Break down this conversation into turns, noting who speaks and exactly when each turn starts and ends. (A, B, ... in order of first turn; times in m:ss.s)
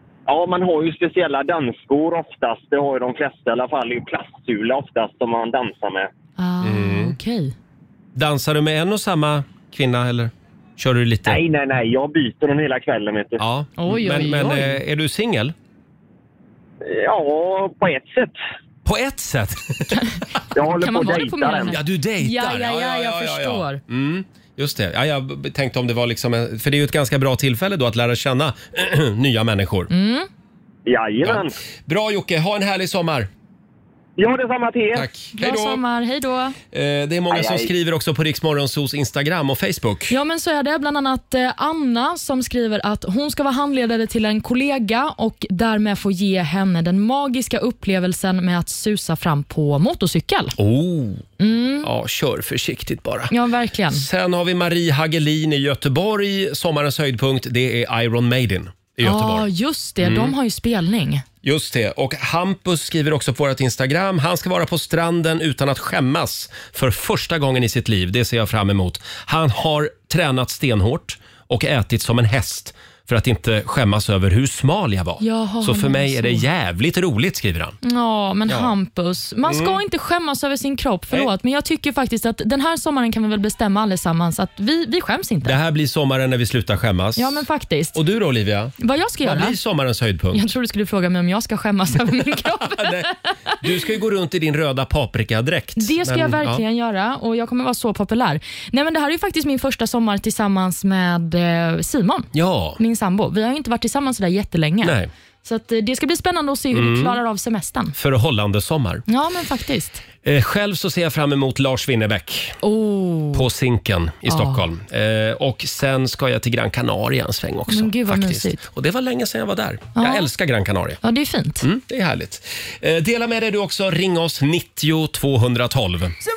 0:00.3-0:06.1 A
0:06.4-0:07.5 B
0:06.6-0:07.2 C
0:08.2-0:11.4 C
0:11.3-0:13.4 A
0:13.4-0:15.6 C
0:13.8-0:14.8 B
0:16.8-0:18.4 A
0:18.8-0:20.0 C
0:20.6-0:21.7 A
0:20.6-0:23.8 B
0:21.7-0:29.9 C
0:29.9-0:30.3 B
0:30.9-0:31.5 A
0:31.2-0:33.3 C
0:34.2-0:35.1 A
0:34.9-0:35.8 C
0:35.3-0:36.6 B
0:36.7-0:40.2 C
0:37.3-0:37.7 A
0:40.1-0:50.6 B
0:50.6-0:51.3 C
0:51.4-0:51.9 B
0:51.8-0:53.3 C
0:53.3-0:54.1 B
0:53.9-0:59.5 C
0:59.0-1:01.2 B
1:00.0-1:00.4 C
1:01.4-1:17.8 C
1:15.2-1:16.4 B
1:17.8-1:25.6 B
1:18.5-1:18.7 C
1:19.5-1:19.8 C
1:25.4-1:30.5 C
1:27.2-1:28.0 B
1:28.8-1:29.6 B
1:30.3-1:33.2 B
1:32.6-1:36.6 C
1:35.8-1:48.0 B
1:42.3-1:42.8 C
1:44.8-1:45.1 C
1:46.7-1:47.2 C
1:48.0-1:49.0 C
1:49.1-1:50.0 B
1:50.2-1:52.6 C
1:52.6-1:53.5 B
1:53.3-2:01.0 C
1:54.3-1:54.6 B
1:57.7-1:58.6 B
2:00.0-2:00.3 B
2:01.0-2:01.7 B
2:01.6-2:06.2 C